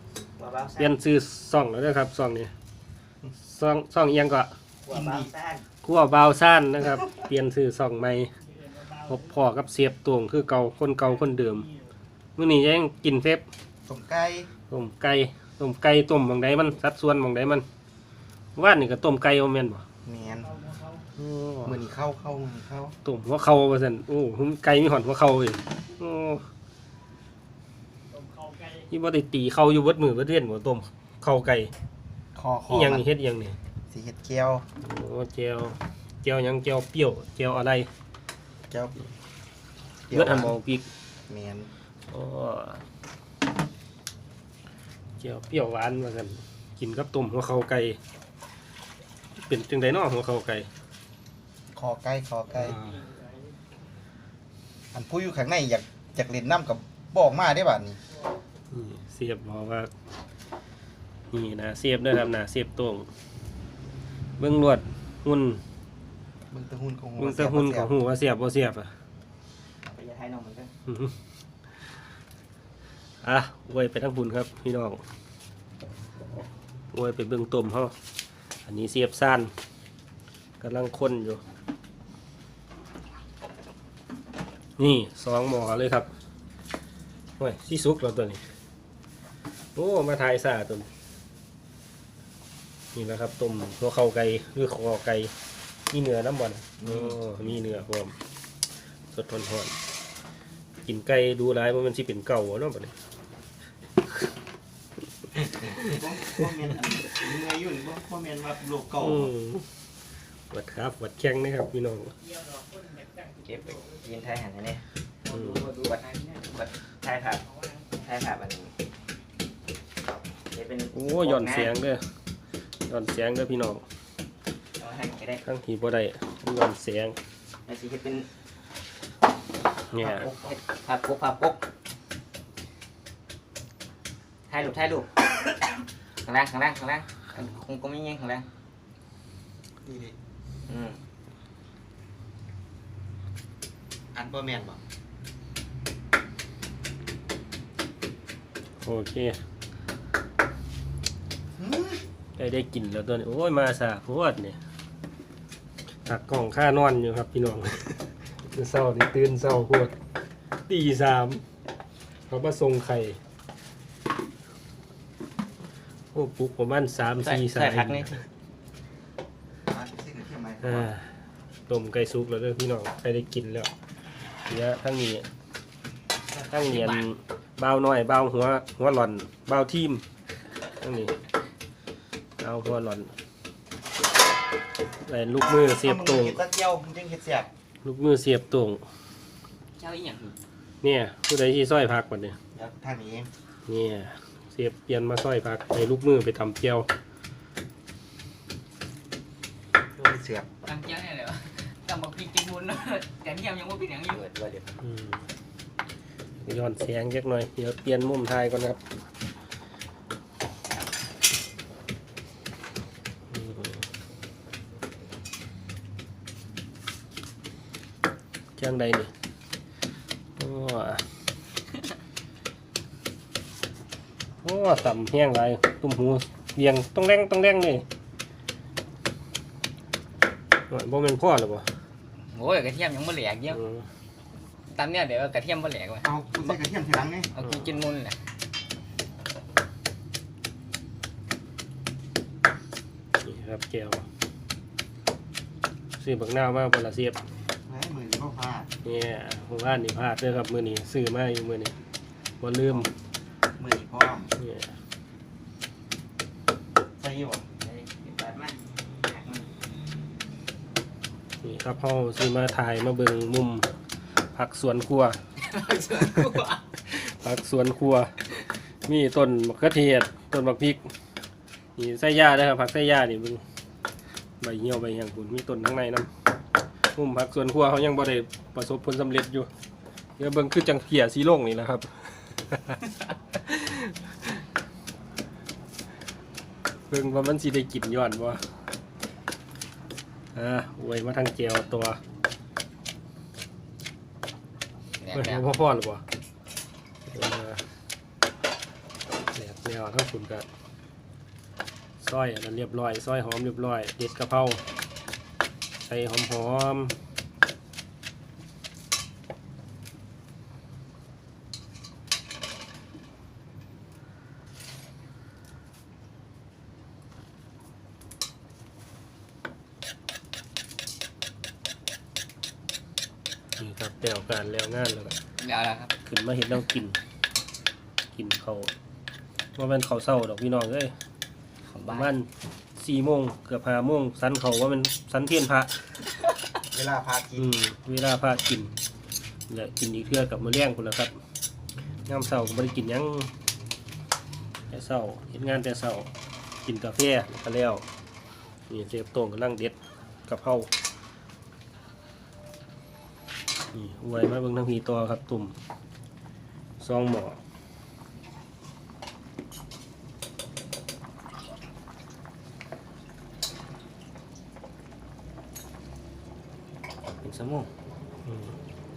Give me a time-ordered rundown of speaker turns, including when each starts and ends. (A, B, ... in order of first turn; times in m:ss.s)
0:00.4-0:01.0 A
0:00.8-0:02.5 B
0:03.4-0:04.5 B
0:04.8-0:05.6 A
0:04.9-0:05.3 C
0:05.8-0:08.3 B
0:08.9-0:11.7 B
0:12.4-0:13.4 B
0:13.9-0:14.5 C
0:14.7-0:17.6 B
0:18.6-0:19.8 B
0:20.0-0:20.6 C
0:21.2-0:21.8 B
0:21.6-0:22.9 C
0:23.0-0:26.5 B
0:28.8-0:31.7 B
0:32.3-0:33.1 C
0:32.7-0:33.6 B
0:33.9-0:34.7 C
0:34.8-0:37.9 B
0:38.7-0:39.0 C
0:40.1-0:40.6 C
0:40.1-0:40.8 B
0:41.3-0:41.7 C
0:42.1-0:42.8 B
0:45.2-0:48.0 B
0:49.4-0:50.7 B
0:51.7-0:52.8 C
0:52.6-0:53.1 B
0:54.9-0:58.0 C
0:58.7-0:59.9 B
1:01.3-1:03.1 B
1:04.4-1:05.6 B
1:06.5-1:07.9 C
1:07.2-1:08.9 B
1:09.8-1:10.7 A
1:10.9-1:11.2 B
1:13.2-1:15.0 B
1:16.9-1:17.9 B
1:18.6-1:19.5 B
1:20.6-1:21.4 B
1:24.8-1:26.1 B
1:27.4-1:28.4 B
1:29.7-1:30.9 B
1:32.9-1:35.3 B
1:35.9-1:38.2 B
1:36.9-1:37.1 A
1:39.1-1:39.7 B
1:40.8-1:42.9 B
1:45.8-1:49.3 C
1:49.0-1:49.7 B
1:50.5-1:52.2 B
1:53.4-1:54.8 A
1:55.3-1:55.7 B
1:55.3-1:56.3 D
1:55.7-1:58.7 A
2:00.5-2:01.7 A
2:00.9-2:02.0 B
2:02.9-2:03.8 B
2:04.8-2:05.4 A
2:05.4-2:07.2 B
2:07.7-2:08.3 A
2:09.9-2:10.3 B
2:10.0-2:11.6 A
2:14.5-2:15.7 A
2:16.2-2:18.5 A
2:19.8-2:20.2 C
2:20.6-2:21.0 A
2:24.1-2:24.8 C
2:28.8-2:29.4 B
2:31.6-2:32.0 C
2:32.4-2:34.6 B
2:36.0-2:39.9 B
2:40.7-2:41.4 B
2:42.3-2:43.2 B
2:46.1-2:48.2 B
2:47.2-2:48.2 A
2:49.7-2:50.9 C
2:50.6-2:53.7 B
2:54.5-2:55.3 B
2:56.5-3:00.0 B
2:56.5-2:57.0 D
3:00.8-3:01.2 B
3:02.4-3:03.1 B
3:05.0-3:06.4 B
3:05.7-3:07.5 C
3:07.8-3:08.8 B
3:09.8-3:10.3 D
3:10.8-3:12.4 B
3:12.5-3:13.3 C
3:13.6-3:16.9 B
3:20.0-3:20.5 C
3:20.6-3:24.2 D
3:24.1-3:24.8 A
3:24.8-3:25.3 B
3:26.4-3:28.8 B
3:33.3-3:33.8 B
3:38.6-3:39.1 B
3:40.4-3:41.0 B
3:44.4-3:47.8 B
3:50.7-3:51.7 B
3:52.3-3:53.6 D
3:53.5-3:53.8 B
3:54.7-3:56.1 D
3:56.0-3:57.3 C
3:57.3-3:58.2 D
4:03.2-4:04.1 B
4:06.0-4:07.2 B
4:07.6-4:08.7 C
4:08.8-4:11.7 B
4:12.4-4:12.9 B
4:13.6-4:14.3 C
4:14.4-4:14.8 B
4:17.0-4:17.4 C
4:17.6-4:19.5 A
4:21.4-4:23.7 B
4:24.3-4:25.2 B
4:25.4-4:26.6 D
4:26.0-4:30.9 B
4:31.8-4:33.4 B
4:34.4-4:36.1 B
4:36.9-4:39.5 B
4:40.2-4:44.3 B
4:46.9-4:48.4 B
4:50.3-4:52.0 B
4:55.0-4:55.4 D
4:55.1-4:56.0 B
4:57.1-4:57.6 B
4:59.3-5:00.5 B
5:02.0-5:04.6 B
5:05.8-5:07.0 B
5:23.6-5:25.2 B
5:25.4-5:25.9 D
5:26.0-5:27.0 B
5:28.1-5:28.7 B
5:29.6-5:30.9 B
5:31.6-5:32.1 D
5:31.9-5:35.8 B
5:36.7-5:37.6 C
5:37.4-5:38.8 B
5:39.5-5:41.2 B
5:42.0-5:43.3 B
5:44.7-5:46.1 B
5:46.6-5:47.8 B
5:48.7-5:49.8 B
5:50.3-5:50.7 B
5:53.7-5:55.6 B
5:56.8-5:57.4 B
6:07.2-6:07.7 A
6:08.2-6:08.6 B